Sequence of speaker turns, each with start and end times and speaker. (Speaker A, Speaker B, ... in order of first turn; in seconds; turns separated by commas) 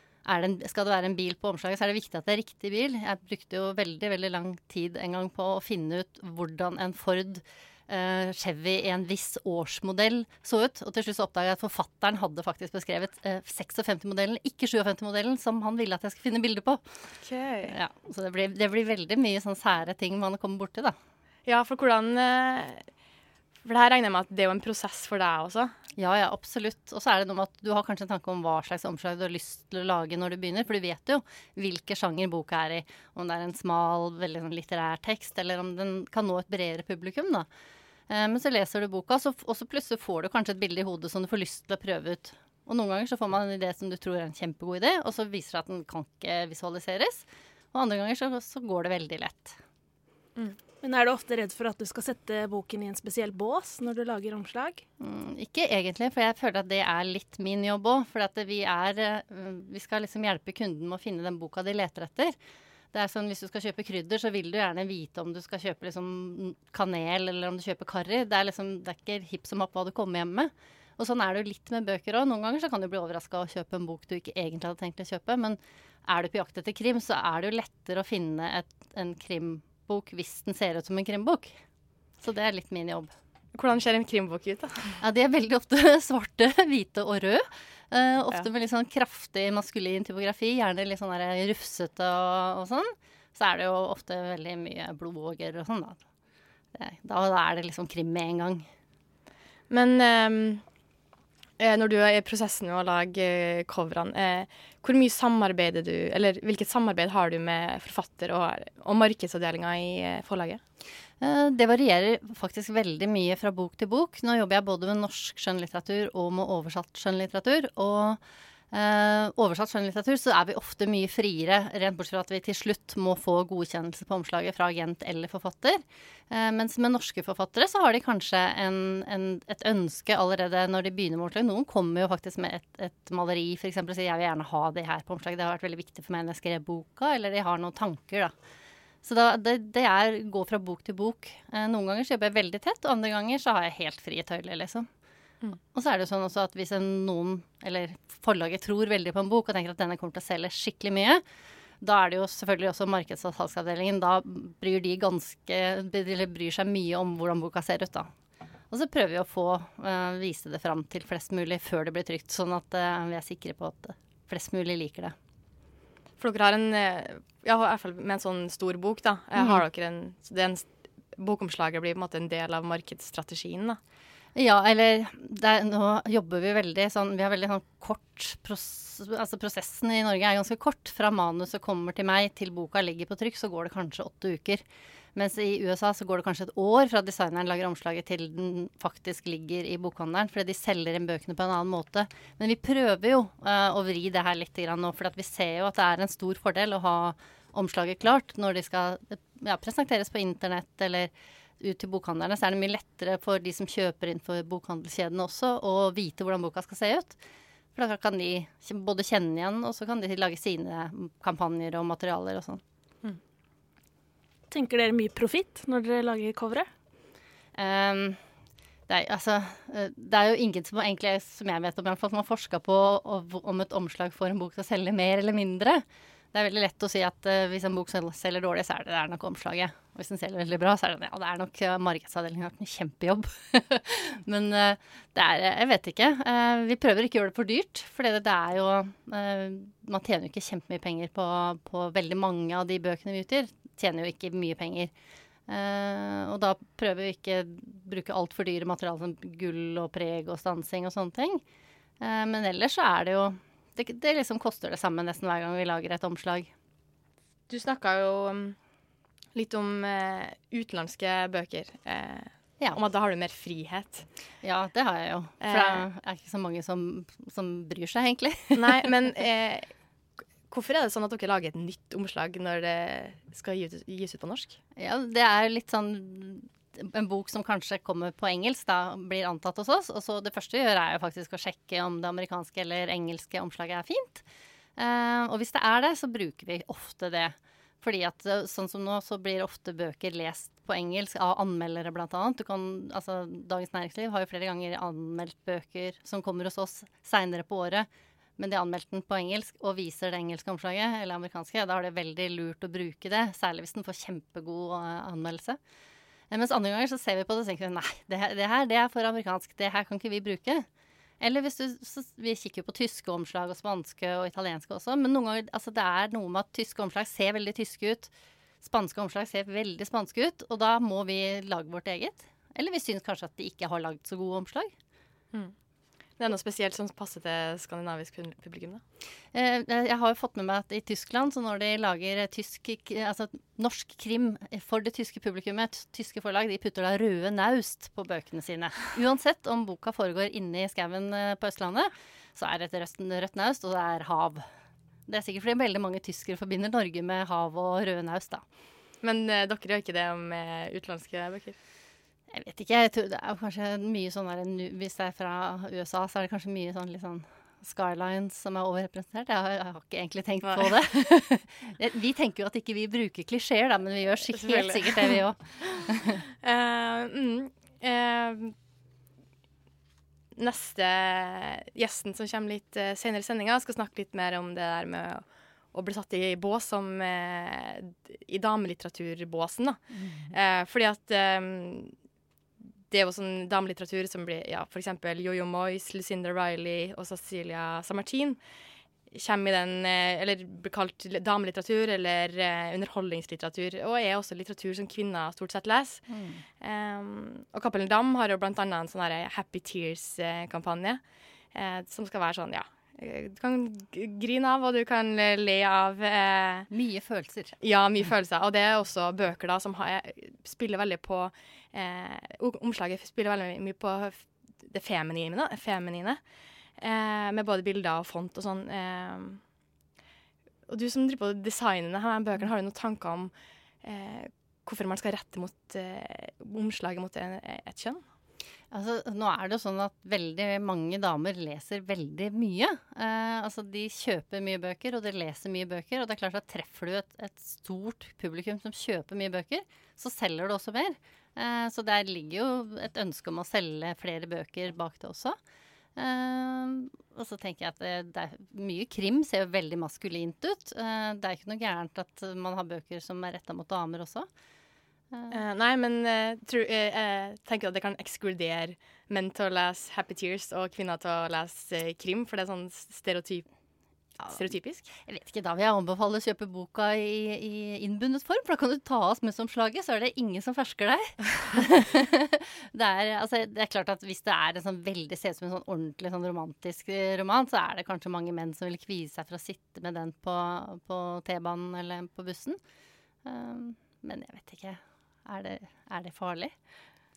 Speaker A: 0.2-16.9, Speaker A: 17.6-20.9, Speaker B: 21.4-22.9, Speaker B: 23.6-25.7, Speaker A: 25.9-37.5, Speaker A: 38.1-49.6, Speaker C: 50.8-54.8, Speaker A: 55.0-62.3, Speaker A: 62.9-81.5, Speaker A: 82.2-83.1, Speaker B: 83.5-85.0, Speaker A: 85.0-96.0, Speaker A: 96.7-98.7, Speaker B: 99.7-100.6, Speaker B: 101.6-110.6, Speaker A: 111.2-118.2, Speaker A: 118.7-138.3, Speaker A: 139.0-144.9, Speaker A: 145.7-151.2, Speaker A: 151.8-158.1, Speaker A: 158.7-165.1, Speaker B: 166.2-173.8, Speaker A: 169.3-169.6, Speaker A: 174.3-184.6, Speaker A: 185.1-207.2, Speaker A: 207.7-212.6, Speaker C: 214.5-216.7, Speaker A: 217.5-218.2, Speaker A: 218.9-244.9, Speaker A: 245.5-251.4, Speaker A: 252.0-256.5, Speaker B: 257.5-258.6, Speaker B: 259.3-264.1, Speaker A: 264.4-268.7, Speaker B: 265.4-265.8, Speaker B: 268.5-269.7, Speaker B: 270.5-274.6, Speaker A: 274.8-284.2, Speaker A: 284.8-305.6, Speaker A: 306.3-310.6, Speaker A: 311.2-318.1, Speaker A: 318.6-324.7, Speaker B: 326.2-328.8, Speaker A: 329.3-344.4, Speaker A: 345.1-348.4, Speaker B: 349.0-351.6, Speaker A: 352.3-366.2, Speaker B: 360.4-360.9, Speaker B: 364.3-365.2, Speaker B: 366.4-368.5, Speaker B: 370.3-382.0, Speaker B: 382.9-388.4, Speaker B: 389.1-406.7, Speaker A: 396.1-396.4, Speaker A: 406.7-407.5, Speaker B: 407.6-416.2, Speaker B: 416.7-419.4, Speaker B: 420.7-428.0, Speaker A: 428.7-445.4, Speaker A: 445.9-454.3, Speaker A: 455.1-455.4, Speaker B: 455.3-463.5, Speaker B: 464.2-464.9, Speaker A: 464.9-482.6, Speaker A: 483.2-486.5